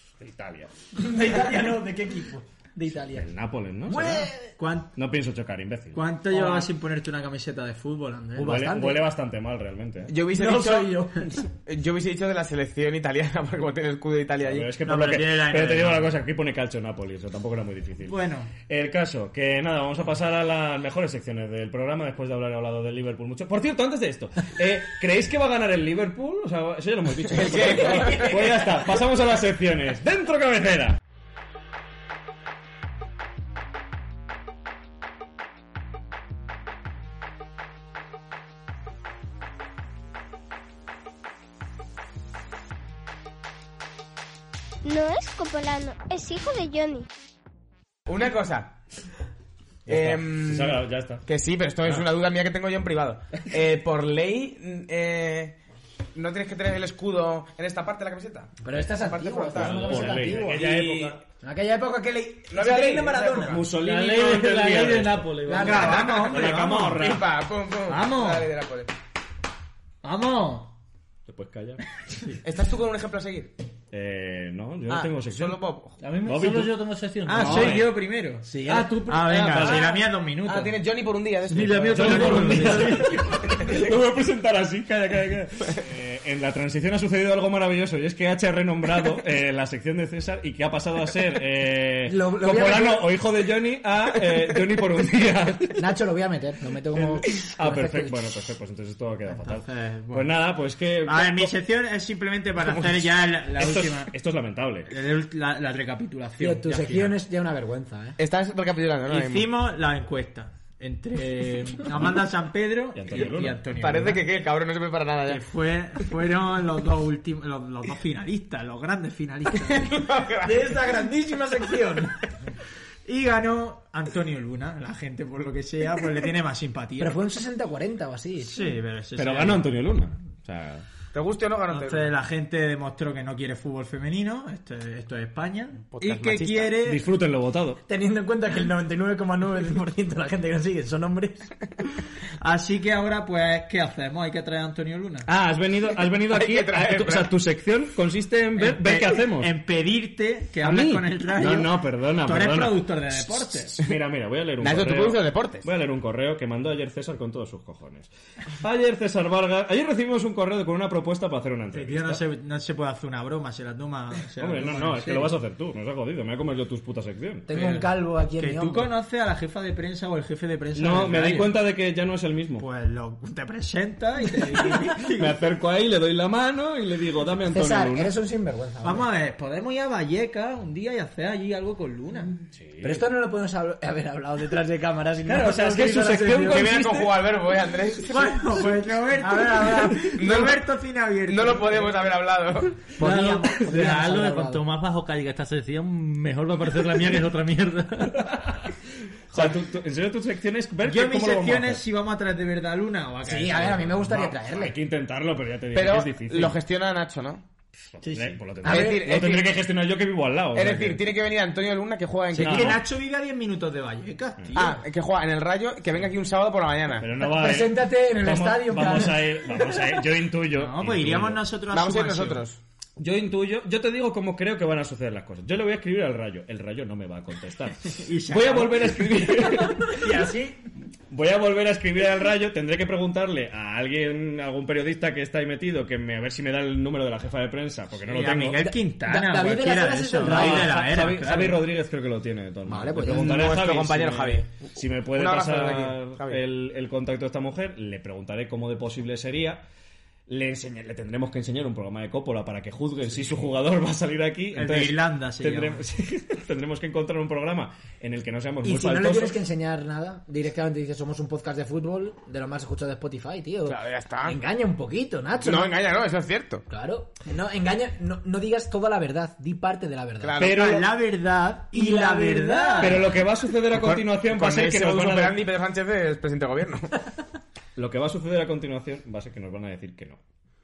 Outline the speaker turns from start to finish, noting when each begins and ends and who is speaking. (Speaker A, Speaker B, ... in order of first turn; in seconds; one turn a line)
Speaker A: 0.2-0.7
Speaker B: 0.9-3.3
Speaker A: 3.1-4.3
Speaker B: 3.9-4.5
Speaker C: 4.6-4.9
Speaker A: 4.9-6.0
Speaker C: 5.9-8.6
Speaker B: 6.3-6.7
Speaker A: 8.4-10.1
Speaker B: 8.4-9.1
Speaker D: 10.1-14.7
Speaker B: 10.3-11.4
Speaker A: 14.4-31.0
Speaker C: 14.8-16.1
Speaker C: 18.1-18.5
Speaker D: 27.3-28.6
Speaker E: 44.8-47.1
Speaker D: 48.1-48.8
Speaker A: 49.9-51.2
Speaker D: 49.9-55.6
Speaker D: 56.1-61.2
Speaker B: 58.6-60.6
Speaker A: 59.5-61.2
Speaker B: 61.4-63.6
Speaker D: 62.5-63.6
Speaker A: 63.4-67.3
Speaker F: 63.8-66.0
Speaker B: 65.5-66.4
Speaker C: 65.5-67.1
Speaker D: 65.9-68.9
Speaker C: 67.9-68.4
Speaker C: 70.0-70.7
Speaker A: 71.3-71.8
Speaker D: 72.4-73.5
Speaker A: 73.9-75.6
Speaker D: 74.9-76.0
Speaker F: 76.0-77.8
Speaker A: 76.2-76.7
Speaker C: 77.2-80.8
Speaker A: 77.4-77.9
Speaker B: 78.5-79.0
Speaker A: 78.7-79.9
Speaker D: 79.6-82.5
Speaker F: 81.5-83.2
Speaker A: 81.9-95.8
Speaker C: 82.0-83.1
Speaker B: 82.2-82.7
Speaker D: 83.5-83.9
Speaker B: 92.1-93.1
Speaker B: 95.8-98.2
Speaker A: 97.2-101.5
Speaker C: 99.3-100.3
Speaker C: 101.0-104.1
Speaker A: 103.6-104.9
Speaker C: 104.9-107.2
Speaker B: 106.4-108.2
Speaker D: 108.2-109.5
Speaker C: 109.1-114.2
Speaker A: 112.9-113.6
Speaker D: 113.7-115.4
Speaker C: 115.2-122.1
Speaker D: 119.7-120.8
Speaker B: 121.7-122.0
Speaker C: 123.1-127.2
Speaker B: 127.0-128.7
Speaker C: 128.4-129.7
Speaker A: 129.2-130.9
Speaker D: 131.1-132.1
Speaker C: 131.7-137.0
Speaker D: 135.9-136.8
Speaker A: 136.8-137.8
Speaker B: 137.9-141.5
Speaker C: 142.4-145.3
Speaker A: 145.2-149.5
Speaker D: 146.3-147.3
Speaker C: 148.6-153.8
Speaker A: 150.6-162.2
Speaker D: 154.6-155.7
Speaker C: 161.7-165.4
Speaker A: 164.4-167.5
Speaker B: 167.5-168.9
Speaker C: 167.5-171.6
Speaker A: 170.7-172.7
Speaker C: 172.6-175.4
Speaker A: 174.9-178.1
Speaker B: 177.5-179.1
Speaker C: 178.8-182.3
Speaker A: 182.5-183.1
Speaker B: 182.8-186.8
Speaker A: 185.2-187.2
Speaker D: 186.5-188.5
Speaker C: 188.0-192.1
Speaker B: 189.2-190.1
Speaker D: 190.1-190.7
Speaker D: 191.2-192.9
Speaker F: 192.9-198.3
Speaker B: 193.0-194.7
Speaker A: 198.2-198.7
Speaker A: 199.3-201.8
Speaker C: 200.8-204.1
Speaker B: 203.2-204.8
Speaker A: 204.0-206.6
Speaker D: 205.7-207.4
Speaker A: 208.0-211.0
Speaker F: 208.0-208.4
Speaker B: 208.6-209.1
Speaker D: 208.6-209.5
Speaker D: 210.5-212.8
Speaker C: 212.3-214.8
Speaker A: 212.4-212.8
Speaker D: 214.6-217.1
Speaker A: 217.0-221.5
Speaker B: 217.2-219.8
Speaker C: 220.5-222.4
Speaker D: 221.7-222.6
Speaker A: 223.0-230.2
Speaker C: 227.9-229.1
Speaker C: 229.9-230.6
Speaker A: 231.1-238.8
Speaker C: 238.1-241.7
Speaker B: 239.1-241.2
Speaker A: 240.2-249.6
Speaker B: 242.7-243.3
Speaker D: 243.1-246.4
Speaker A: 250.3-259.4
Speaker C: 254.5-255.8
Speaker B: 258.6-265.9
Speaker D: 263.6-264.4
Speaker D: 265.4-266.6
Speaker B: 266.7-270.4
Speaker D: 270.2-270.9
Speaker A: 270.4-270.9
Speaker C: 270.4-273.0
Speaker B: 271.7-273.1
Speaker A: 272.8-275.4
Speaker D: 273.7-276.9
Speaker A: 277.8-280.2